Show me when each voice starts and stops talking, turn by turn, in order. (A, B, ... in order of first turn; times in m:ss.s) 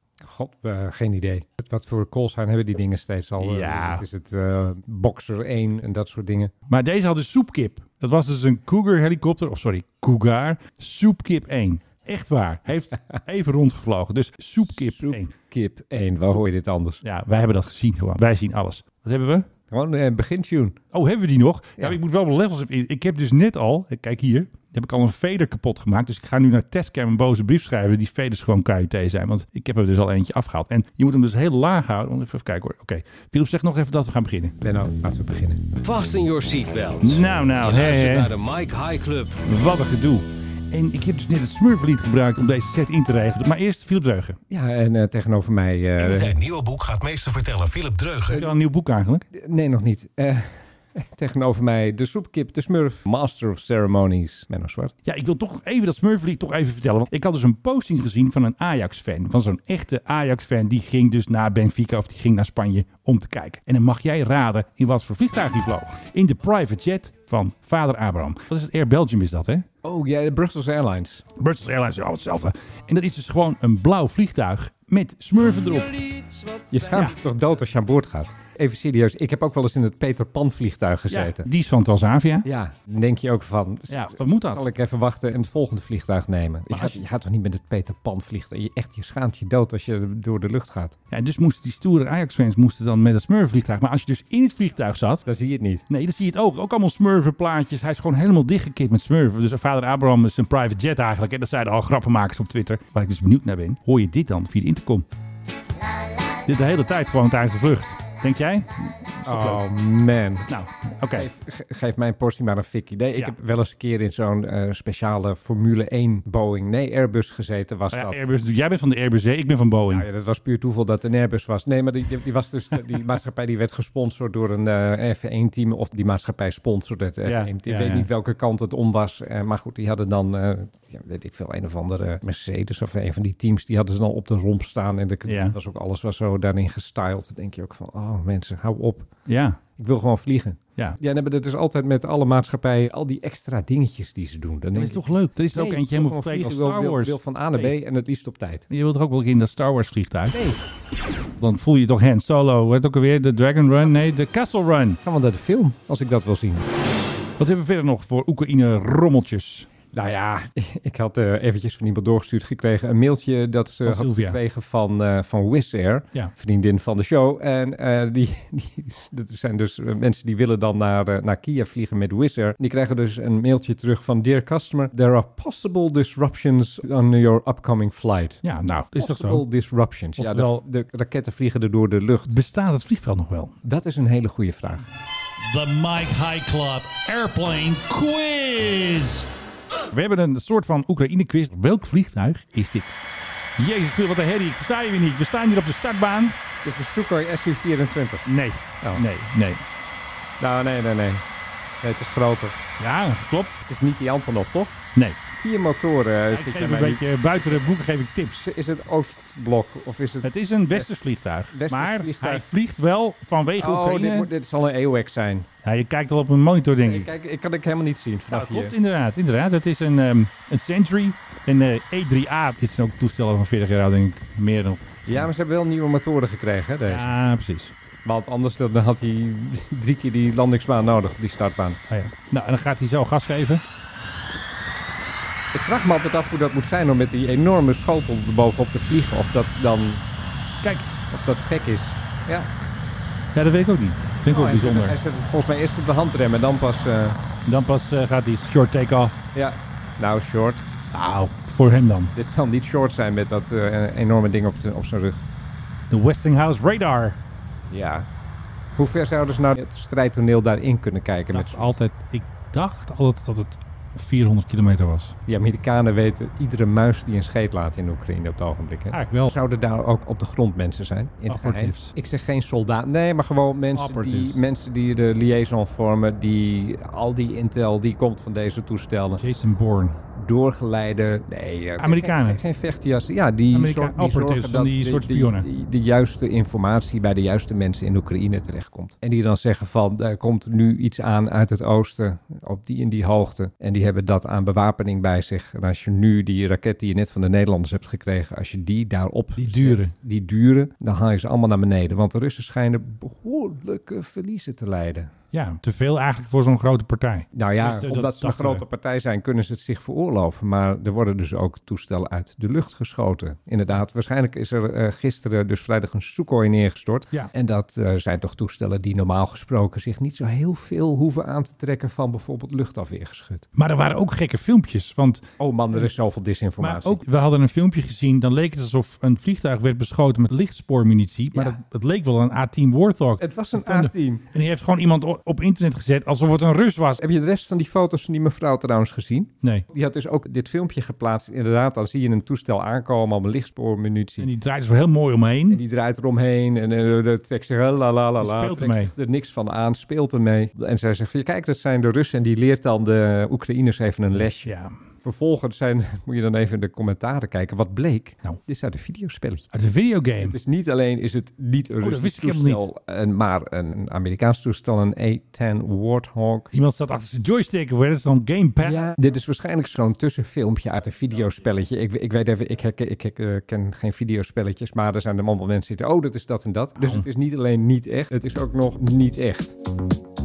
0:00.2-0:06.5 A
0:03.4-0:04.0 B
0:06.7-0:15.3 B
0:14.7-0:17.0 A
0:17.0-0:19.5 B
0:19.7-0:20.8 A
0:20.9-0:34.6 B
0:34.6-0:35.7 A
0:35.8-0:37.0 C
0:37.0-0:38.4 B
0:37.8-0:39.4 C
0:39.4-0:44.4 B
0:44.5-0:46.4 A
0:46.0-0:48.4 D
0:48.3-0:49.2 B
0:49.3-0:54.9 A
0:55.0-1:09.7 B
1:09.8-1:11.2 A
1:11.4-1:16.4 B
1:16.7-1:21.5 A
1:16.9-1:17.2 B
1:21.1-1:22.5 B
1:22.4-1:31.0 A
1:23.9-1:24.7 B
1:26.7-1:27.0 B
1:31.1-1:35.2 B
1:35.3-1:35.8 A
1:35.9-1:45.0 B
1:46.4-1:49.6 B
1:49.2-1:50.5 A
1:50.5-1:51.3 B
1:51.1-1:58.3 A
1:57.9-2:00.1 B
1:59.9-2:19.1 A
2:07.2-2:08.1 B
2:15.3-2:15.6 B
2:19.3-2:19.6 B
2:19.8-2:28.7 A
2:24.7-2:27.8 B
2:28.7-2:30.4 B
2:30.3-2:30.6 A
2:31.4-2:35.0 B
2:35.0-2:36.7 A
2:37.4-2:39.7 B
2:39.9-2:58.4 A
2:43.8-2:44.4 B
2:58.4-2:59.4 B
2:59.0-3:02.4 A
3:00.2-3:00.6 B
3:02.3-3:03.6 B
3:03.6-3:04.9 A
3:05.4-3:09.3 B
3:09.9-3:13.0 B
3:13.6-3:16.4 B
3:16.6-3:18.3 A
3:18.3-3:19.6 B
3:20.4-3:21.2 A
3:21.8-3:22.6 A
3:22.8-3:23.6 B
3:23.6-3:24.8 A
3:25.0-3:25.3 B
3:25.4-3:27.7 A
3:26.3-3:28.5 B
3:28.4-3:30.9 A
3:30.2-3:34.3 B
3:31.5-3:32.5 A
3:33.6-3:35.5 A
3:35.6-3:37.1 B
3:36.8-3:38.8 A
3:38.3-3:45.3 B
3:45.1-3:47.1 A
3:46.9-3:47.7 B
3:48.0-3:51.8 A
3:51.9-3:53.6 B
3:55.5-4:00.0 A
4:00.6-4:00.9 B
4:01.1-4:02.5 A
4:03.3-4:05.0 B
4:04.3-4:07.2 A
4:07.5-4:09.2 B
4:09.3-4:10.6 A
4:10.9-4:12.1 B
4:12.2-4:15.2 A
4:15.9-4:17.2 B
4:17.7-4:18.1 A
4:18.8-4:21.8 A
4:21.3-4:25.2 B
4:25.3-4:39.2 A
4:28.9-4:29.3 B
4:31.3-4:31.9 B
4:33.7-4:34.4 B
4:39.2-4:40.0 B
4:40.1-5:05.1 A
4:41.8-4:42.4 B
4:43.5-4:45.5 B
4:59.4-4:59.9 B
5:05.3-5:08.6 B
5:07.3-5:23.5 A
5:23.6-5:25.9 B
5:25.4-5:27.0 A
5:26.6-5:37.0 B
5:33.2-5:34.3 A
5:37.0-5:44.3 A
5:44.2-5:45.6 B
5:45.5-5:59.5 A
5:48.2-5:48.9 B
5:54.4-5:54.8 B
5:59.5-6:00.4 B
6:00.2-6:06.5 A
6:01.8-6:02.6 B
6:06.5-6:08.8 B
6:08.6-6:19.6 A
6:16.8-6:17.1 B